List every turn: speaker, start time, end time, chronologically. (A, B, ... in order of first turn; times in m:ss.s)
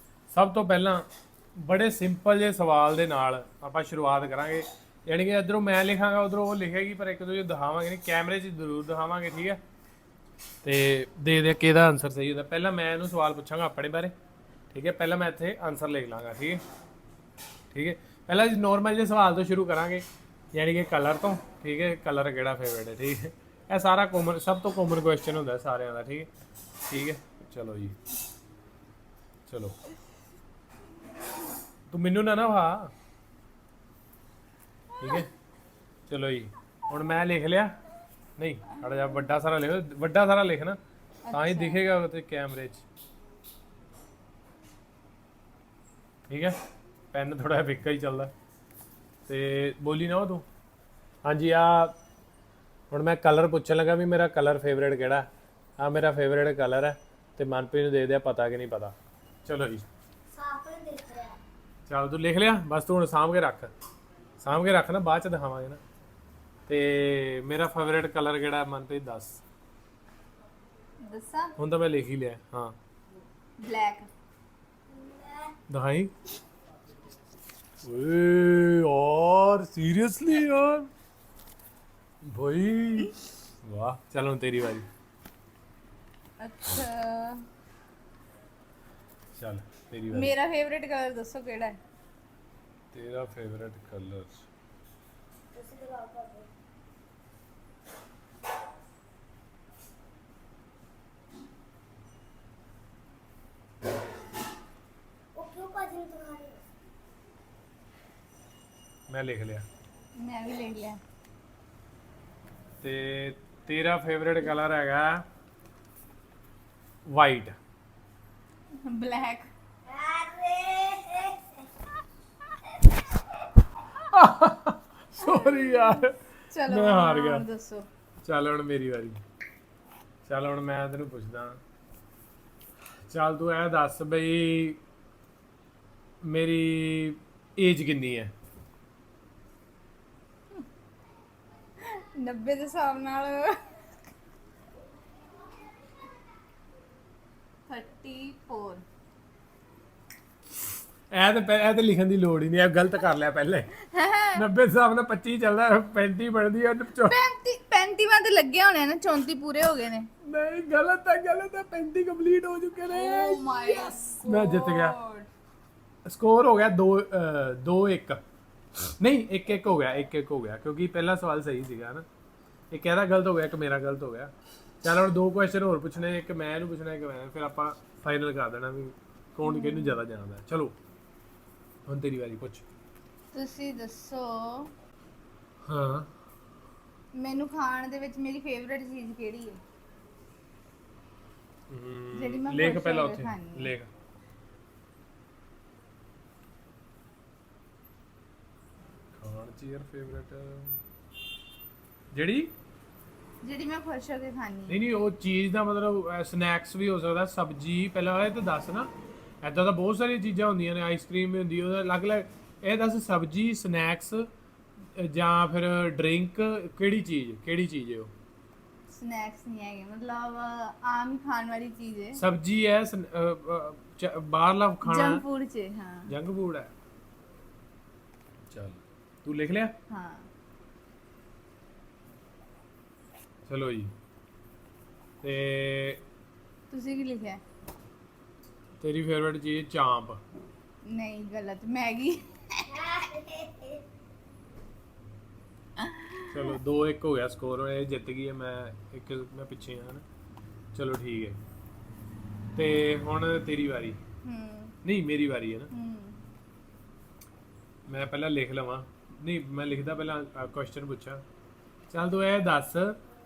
0:00.3-0:09.6 A
0:10.6-0:14.1 A
0:14.7-0:16.6 A
0:17.7-0:26.3 A
0:26.8-0:28.0 A
0:29.5-0:29.7 A
0:31.9-0:32.9 A
0:35.0-0:35.3 A
0:36.1-0:37.7 A
0:38.4-0:40.8 A
0:41.2-0:41.8 B
0:41.3-0:42.8 A
0:46.3-0:46.6 A
0:47.1-0:48.3 A
0:49.3-0:50.4 A
0:51.2-0:51.9 A
0:52.9-0:55.3 A
0:55.8-0:59.8 A
1:00.3-1:01.4 C
1:01.9-1:03.7 A
1:04.4-1:05.8 A
1:06.7-1:09.4 A
1:11.0-1:11.5 B
1:11.6-1:12.8 A
1:13.6-1:14.1 B
1:14.9-1:15.5 C
1:15.7-1:16.1 A
1:17.8-1:20.9 A
1:22.2-1:23.1 A
1:23.6-1:24.8 A
1:26.4-1:27.4 B
1:29.4-1:30.3 A
1:30.1-1:31.8 B
1:32.9-1:34.5 A
1:35.5-1:36.5 C
1:45.3-1:46.6 C
1:49.1-1:49.6 A
1:50.2-1:51.0 B
1:52.8-1:55.2 A
1:57.1-1:57.6 A
1:58.8-1:59.5 B
1:59.9-2:01.6 C
2:04.0-2:06.1 A
2:05.2-2:07.8 B
2:06.7-2:07.4 A
2:08.2-2:09.2 A
2:10.2-2:11.6 A
2:13.1-2:14.8 A
2:16.2-2:18.3 A
2:21.8-2:23.6 B
2:27.7-2:28.8 B
2:31.1-2:33.7 A
2:33.8-2:34.4 B
2:34.3-2:37.2 A
2:37.1-2:40.1 B
2:40.2-2:45.0 A
2:42.9-2:45.3 B
2:46.0-2:48.2 A
2:48.8-2:52.0 A
2:52.7-3:00.7 A
2:59.4-3:00.0 B
3:01.9-3:02.6 A
3:03.3-3:04.7 B
3:05.6-3:06.1 A
3:07.1-3:09.6 B
3:11.7-3:13.9 A
3:12.1-3:13.7 B
3:19.2-3:20.8 A
3:22.1-3:22.5 A
3:23.4-3:24.8 B
3:24.7-3:28.9 A
3:29.4-3:34.3 A
3:34.9-3:38.1 A
3:38.9-3:42.2 B
3:42.1-3:45.2 A
3:44.8-3:46.1 B
3:46.1-3:46.7 A
3:48.5-3:49.7 A
3:49.9-3:50.3 B
3:53.5-3:53.9 A
3:55.2-3:56.0 A
3:56.7-3:57.4 B
3:58.8-4:00.2 A
4:00.8-4:02.7 B
4:02.7-4:03.8 C
4:05.8-4:06.5 B
4:06.3-4:10.0 A
4:10.7-4:11.4 A
4:12.6-4:14.0 A
4:14.2-4:14.8 B
4:14.8-4:15.7 A
4:15.7-4:16.2 B
4:17.9-4:21.2 A
4:21.9-4:23.0 A